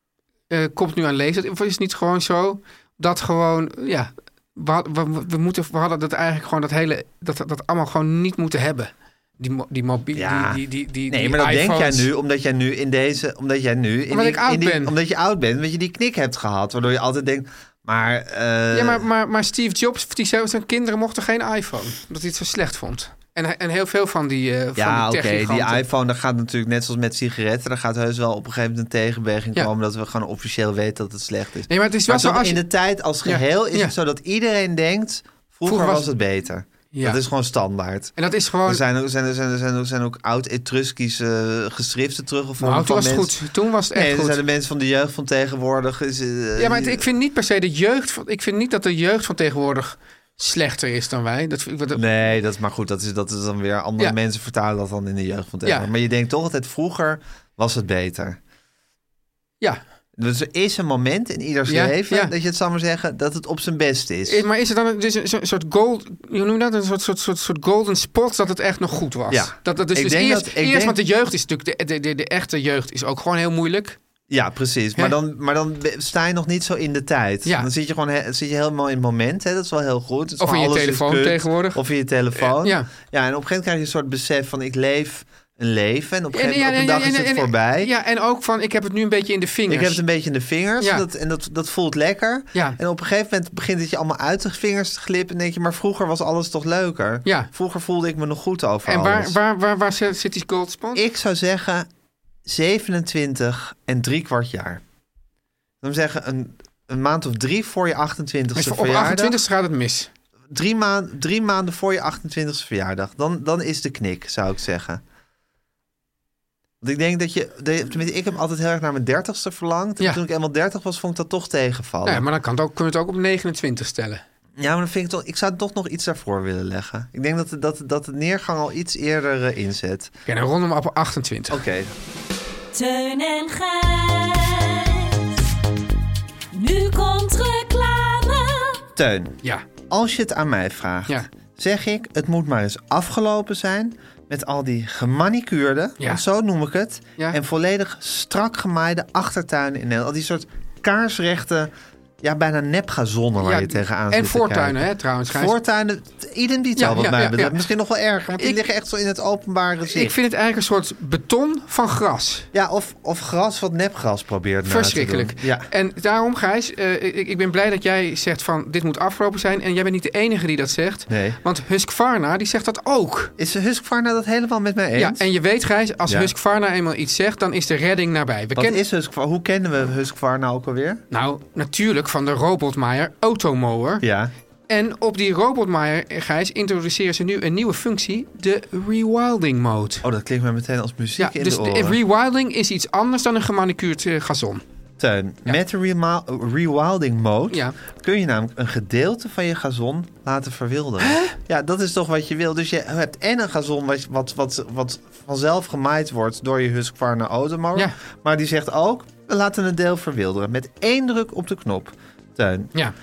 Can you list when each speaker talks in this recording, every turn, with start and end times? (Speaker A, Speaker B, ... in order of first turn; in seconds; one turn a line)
Speaker A: 0.5-12.1
Speaker B: 10.1-19.0
Speaker A: 14.1-14.9
Speaker A: 18.7-25.8
Speaker B: 24.8-38.1
Speaker A: 31.7-32.6
Speaker A: 33.2-33.9
Speaker A: 35.6-36.1
Speaker A: 36.9-37.2
Speaker A: 38.2-38.8
Speaker B: 38.6-43.4
Speaker A: 42.6-44.4
Speaker B: 43.9-47.0
Speaker A: 46.6-52.0
Speaker B: 51.9-58.4
Speaker B: 60.2-64.4
Speaker A: 61.7-62.3
Speaker A: 64.3-74.0
Speaker B: 69.3-71.0
Speaker B: 74.3-87.9
Speaker A: 80.4-81.8
Speaker A: 82.3-82.9
Speaker A: 86.3-90.0
Speaker B: 89.7-99.4
Speaker A: 90.8-91.0
Speaker A: 98.8-101.0
Speaker B: 100.9-101.9
Speaker B: 102.4-104.8
Speaker B: 105.8-109.4
Speaker A: 108.5-110.1
Speaker B: 110.5-115.0
Speaker B: 116.8-122.2
Speaker A: 122.0-124.2
Speaker B: 124.6-130.1
Speaker A: 130.3-131.6
Speaker B: 131.5-131.9
Speaker C: 132.7-135.1
Speaker C: 136.5-138.8
Speaker B: 138.9-151.7
Speaker B: 152.2-160.1
Speaker A: 153.4-155.6
Speaker A: 156.8-157.6
Speaker A: 158.3-158.6
Speaker A: 159.9-162.5
Speaker B: 162.5-165.7
Speaker A: 164.7-173.3
Speaker B: 171.1-171.4
Speaker B: 173.4-175.2
Speaker A: 174.9-178.8
Speaker B: 178.5-181.0
Speaker A: 181.1-184.0
Speaker B: 184.0-184.3
Speaker A: 184.7-190.0
Speaker B: 190.0-192.0
Speaker A: 191.2-194.6
Speaker B: 195.0-212.7
Speaker A: 201.0-201.3